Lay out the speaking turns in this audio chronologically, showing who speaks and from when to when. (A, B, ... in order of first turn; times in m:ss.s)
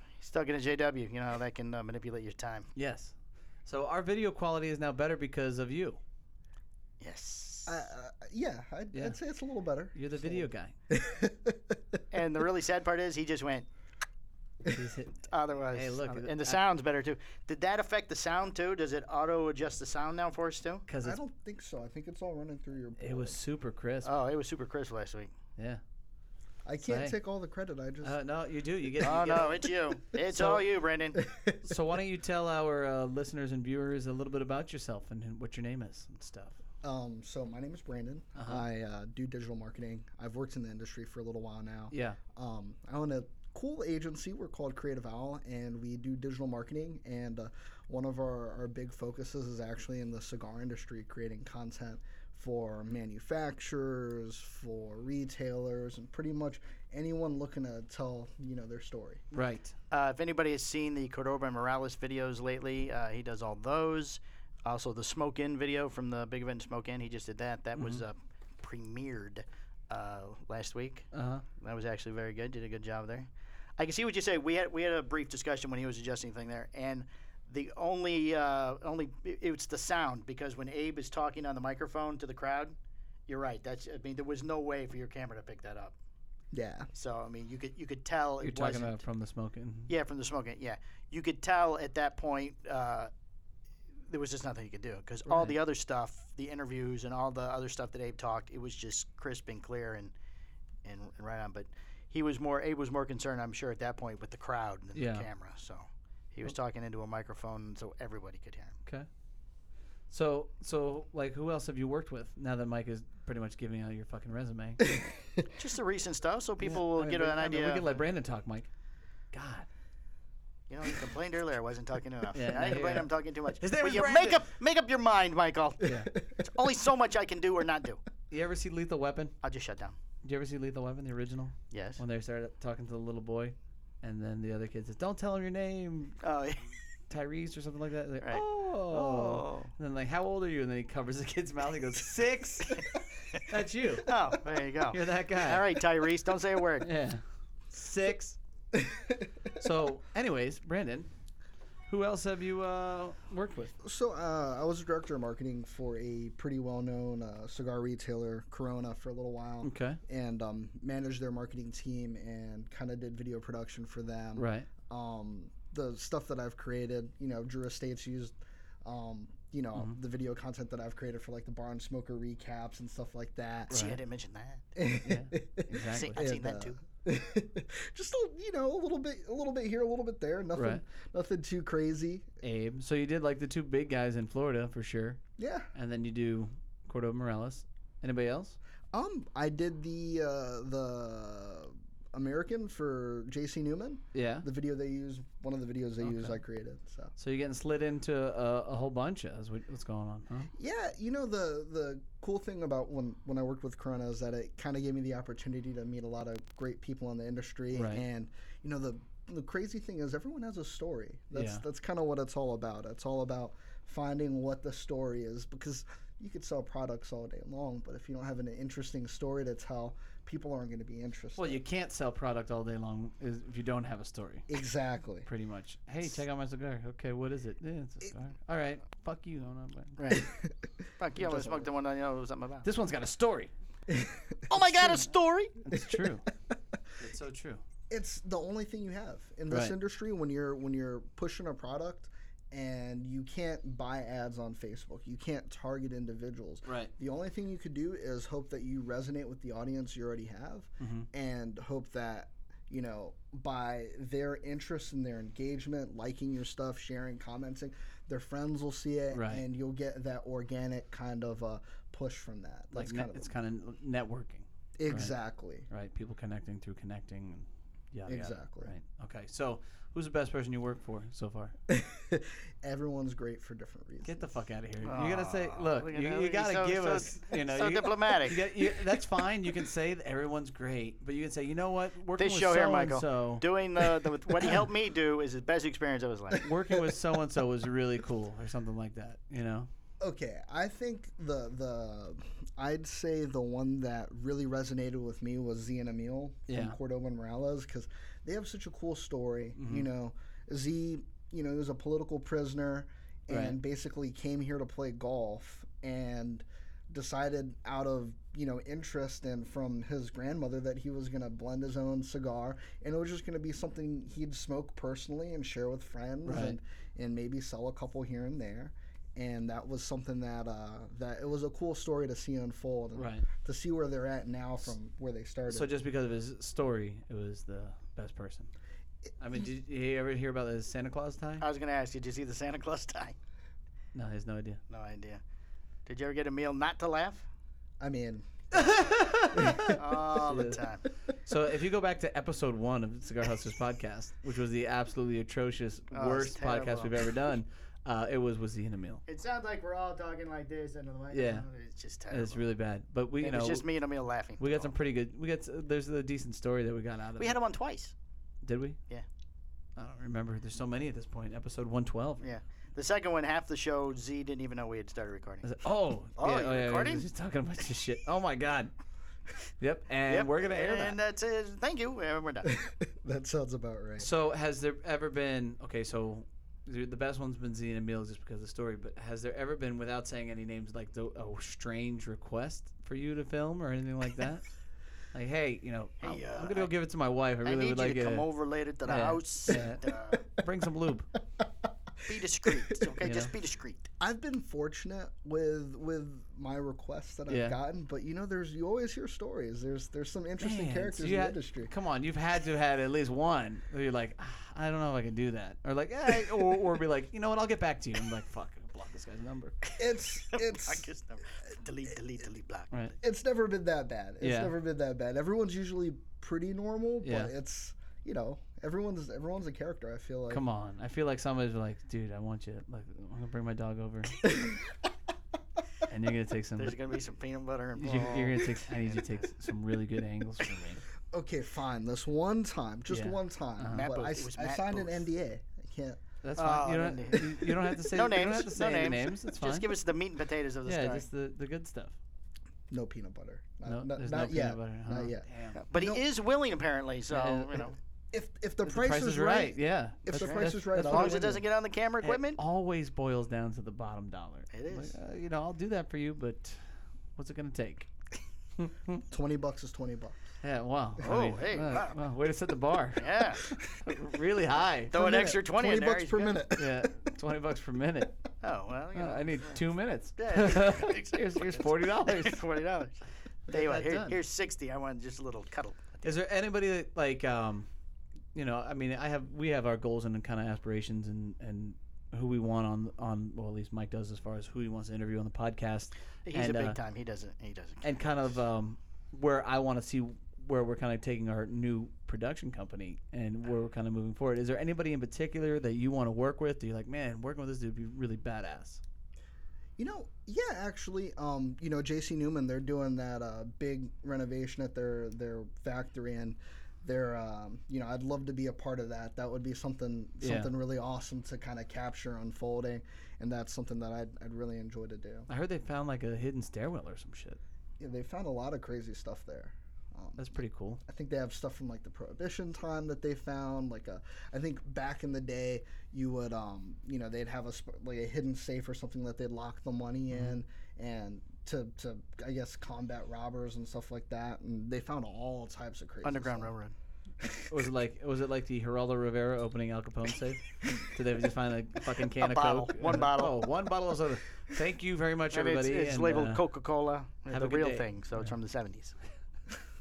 0:00.2-0:02.7 A
0:02.8-0:03.1 B
0:03.6-0:06.0 B
0:07.0-0:07.8 A
0:07.7-0:11.8 C
0:08.9-0:09.2 B
0:09.9-0:10.8 B
0:12.1-0:13.7 A
0:14.6-0:16.6 B
0:15.3-0:20.8 A
0:20.9-0:21.2 B
0:21.0-0:23.4 C
0:23.0-0:24.1 B
0:24.0-0:25.3 A
0:26.6-0:28.2 C
0:26.8-0:27.2 B
0:28.0-0:29.7 B
0:29.0-0:31.2 A
0:29.1-0:29.5 C
0:31.2-0:31.7 C
0:31.6-0:36.6 B
0:36.8-0:59.2 C
0:38.4-0:38.6 B
0:41.9-0:42.2 B
0:59.3-0:59.8 B
0:59.9-1:11.1 A
1:07.8-1:08.0 B
1:11.1-1:11.4 B
1:11.6-1:22.8 A
1:23.3-1:26.0 A
1:26.5-1:26.9 C
1:26.9-1:29.0 A
1:28.4-1:29.9 B
1:29.9-1:33.1 A
1:34.1-1:40.1 A
1:35.3-1:35.6 B
1:40.8-1:48.8 A
1:45.0-1:45.3 B
1:50.1-1:54.9 B
1:55.6-1:58.0 A
1:56.6-1:58.7 B
1:59.3-1:59.7 B
2:00.7-2:08.0 A
2:02.3-2:04.4 B
2:05.8-2:06.1 B
2:08.3-2:09.3 B
2:09.4-2:10.0 A
2:10.2-2:16.2 B
2:11.7-2:12.0 A
2:16.2-2:16.6 A
2:17.1-2:22.8 B
2:18.2-2:19.7 A
2:23.5-2:24.1 B
2:24.1-2:26.9 A
2:24.9-2:25.7 B
2:26.8-2:28.4 B
2:28.8-2:29.2 C
2:29.6-2:31.1 B
2:31.9-2:33.7 B
2:33.8-2:53.8 C
2:39.6-2:40.0 B
2:44.4-2:44.7 B
2:53.7-2:54.0 B
2:53.7-2:54.6 A
2:54.8-3:02.3 C
2:55.0-2:56.3 B
2:55.9-2:56.8 A
3:00.6-3:00.8 B
3:02.4-3:05.2 B
3:05.4-3:05.7 C
3:05.7-3:08.6 B
3:08.9-3:17.1 C
3:14.1-3:14.5 B
3:16.0-3:16.4 B
3:17.2-3:20.5 B
3:20.6-3:41.6 C
3:27.7-3:28.0 B
3:31.3-3:31.6 B
3:41.4-3:44.5 B
3:44.5-3:45.3 C
3:45.2-3:50.0 B
3:50.0-3:50.3 A
3:50.1-3:50.5 C
3:51.0-3:52.7 A
3:51.2-3:51.7 C
3:52.6-3:53.5 B
3:53.9-3:55.1 C
3:54.5-3:55.5 A
3:55.6-3:56.2 B
3:55.7-3:56.1 C
3:57.0-3:57.6 B
3:57.9-4:23.3 C
3:59.5-3:59.8 B
4:06.6-4:06.9 B
4:10.8-4:11.1 B
4:19.1-4:19.4 B
4:22.7-4:25.2 B
4:24.8-4:25.7 C
4:25.7-4:31.6 B
4:28.1-4:28.7 C
4:31.7-4:34.3 C
4:34.0-4:43.4 B
4:34.8-4:38.4 A
4:42.2-4:46.5 A
4:46.4-4:49.7 B
4:50.0-5:25.7 C
4:56.5-4:56.8 B
4:59.6-4:59.9 B
5:03.3-5:03.6 B
5:16.2-5:16.6 B
5:23.0-5:23.3 B
5:25.5-5:28.5 B
5:29.2-5:31.4 B
5:31.4-5:33.2 A
5:33.9-5:34.6 B
5:34.7-5:35.2 A
5:35.9-5:37.3 A
5:37.8-5:39.8 C
5:38.5-5:40.6 B
5:39.7-5:40.8 A
5:41.3-5:49.0 B
5:45.9-5:47.1 A
5:49.1-5:52.4 A
5:51.1-5:51.5 B
5:52.1-5:53.7 B
5:53.2-5:54.7 A
5:54.4-5:57.4 B
5:57.2-5:57.9 A
5:58.4-5:58.8 B
5:59.8-6:02.2 B
6:02.2-6:05.5 A
6:05.4-6:08.7 B
6:06.2-6:07.1 A
6:09.6-6:11.0 B
6:10.1-6:12.5 A
6:12.5-6:14.1 C
6:14.0-6:24.4 B
6:25.1-6:28.3 B
6:26.0-6:26.7 A
6:27.4-6:30.2 A
6:28.8-6:29.8 B
6:30.4-6:31.1 B
6:32.1-6:33.9 A
6:33.0-6:33.3 B
6:34.0-6:41.7 C
6:37.3-6:37.6 B
6:40.4-6:49.6 B
6:49.8-6:50.9 C
6:50.3-6:52.7 A
6:53.0-7:00.4 C
6:54.2-6:54.6 B
6:57.0-6:57.3 B
7:00.3-7:04.2 B
7:04.2-7:04.6 C
7:05.9-7:06.8 B
7:06.6-7:09.2 A
7:07.8-7:10.8 B
7:11.1-7:16.0 C
7:12.9-7:13.9 B
7:13.7-7:15.1 A
7:16.2-7:19.7 B
7:16.4-7:21.1 A
7:20.6-7:22.0 B
7:22.7-7:26.0 C
7:23.7-7:25.6 B
7:25.6-7:27.8 A
7:27.1-7:27.6 B
7:28.1-7:31.4 C
7:28.6-7:31.4 B
7:30.1-7:32.4 A
7:32.0-7:37.9 B
7:34.5-7:34.9 A
7:38.6-7:39.0 B
7:39.1-7:40.2 C
7:40.4-7:45.0 B
7:41.0-7:42.0 A
7:43.0-7:43.4 A
7:44.9-7:46.4 A
7:44.9-7:46.9 C
7:46.6-7:48.2 B
7:48.4-7:49.6 A
7:49.0-7:52.4 B
7:50.2-7:56.2 A
7:53.5-7:54.2 B
7:56.0-7:57.7 B
7:58.3-8:06.8 B
8:06.3-8:07.9 A
8:07.8-8:18.8 B
8:19.8-8:35.3 C
8:30.2-8:30.5 B
8:35.3-8:37.4 B
8:37.8-8:40.3 C
8:40.2-8:40.8 B
8:40.9-8:56.5 C
8:50.1-8:50.4 B
8:56.0-8:56.7 A
8:57.5-9:06.4 B
9:02.2-9:03.5 A
9:05.3-9:09.0 A
9:07.3-9:08.3 B